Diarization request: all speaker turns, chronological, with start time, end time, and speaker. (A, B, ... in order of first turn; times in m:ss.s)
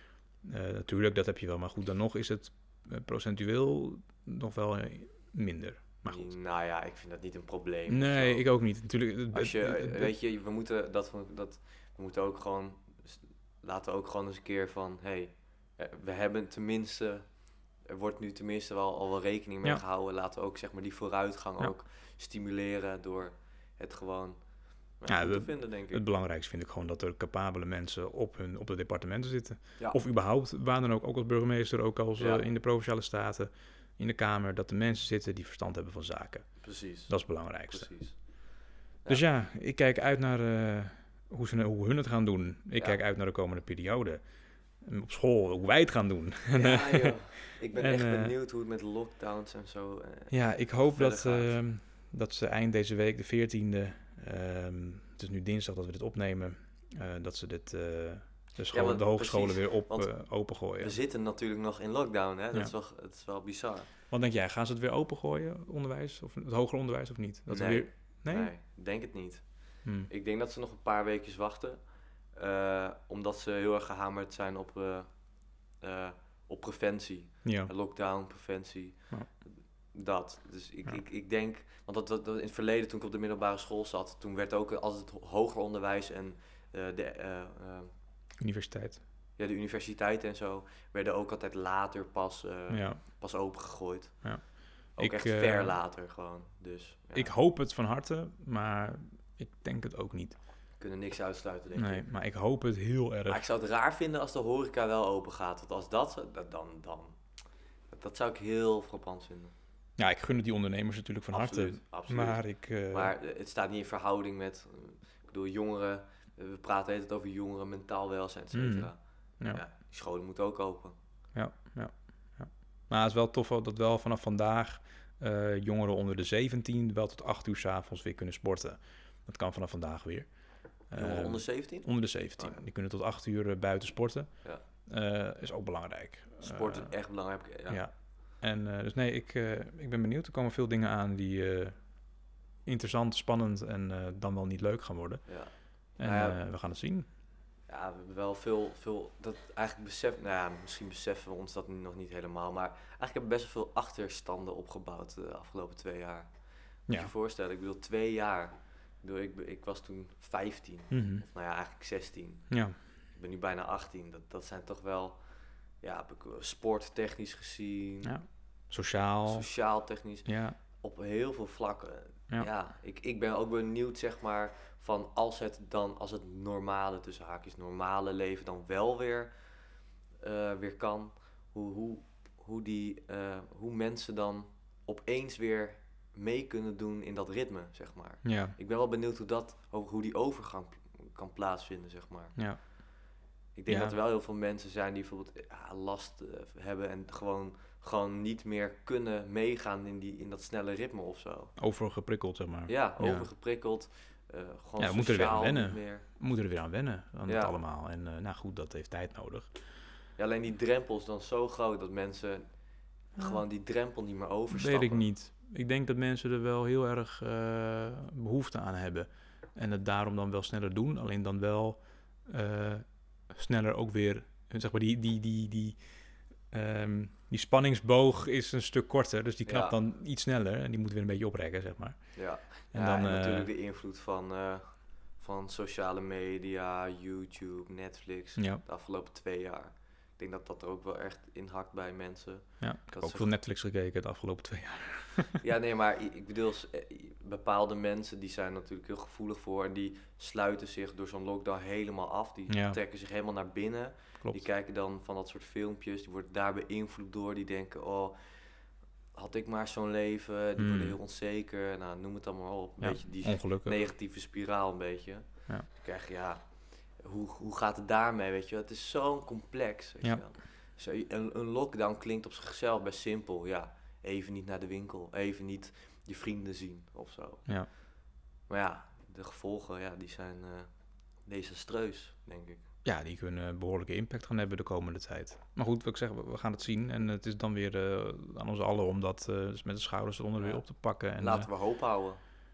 0:00.4-0:06.3 A
0:06.1-0:08.5 B
0:07.9-0:10.2 A
0:09.3-0:24.4 B
0:24.9-0:26.0 B
0:25.1-0:38.2 A
0:32.2-0:32.5 B
0:36.6-0:38.5 B
0:39.1-0:44.2 A
0:42.8-0:43.0 B
0:44.8-0:48.3 A
0:46.5-0:51.5 B
0:50.3-1:01.0 A
0:58.7-1:03.9 B
1:04.1-1:08.5 A
1:07.5-1:27.9 B
1:17.4-1:17.7 A
1:28.4-1:29.0 A
1:29.4-1:37.4 B
1:32.7-1:33.0 A
1:34.2-1:35.8 A
1:37.2-1:40.4 A
1:40.8-1:42.1 B
1:41.8-1:43.4 A
1:43.3-1:47.2 B
1:47.9-1:49.5 B
1:50.0-1:53.1 A
1:51.3-2:01.0 B
1:58.5-1:59.6 A
2:01.3-2:17.0 A
2:10.9-2:12.6 B
2:16.4-2:17.8 B
2:17.7-2:22.0 A
2:22.6-2:27.1 A
2:25.3-2:26.4 B
2:27.7-2:45.3 B
2:40.9-2:41.2 A
2:42.5-2:42.8 A
2:45.8-2:48.1 B
2:48.0-2:49.6 A
2:49.3-2:59.4 B
2:50.2-2:50.6 A
3:00.2-3:12.4 B
3:08.2-3:08.6 A
3:12.4-3:12.7 A
3:13.6-3:21.6 B
3:13.7-3:14.0 A
3:21.6-3:23.3 A
3:22.7-3:26.1 B
3:24.8-3:29.6 A
3:27.3-3:27.6 B
3:30.2-3:32.5 B
3:33.1-3:35.1 B
3:33.2-3:33.4 A
3:34.5-3:53.5 A
3:49.5-3:49.8 B
3:52.2-4:03.3 B
3:58.4-3:58.6 A
4:02.6-4:05.4 A
4:05.4-4:18.6 B
4:12.5-4:12.8 A
4:19.1-4:37.5 B
4:20.6-4:21.0 A
4:22.8-4:23.8 A
4:30.0-4:30.3 A
4:38.5-4:40.7 B
4:41.2-4:42.6 B
4:42.8-4:51.5 A
4:50.4-4:52.2 B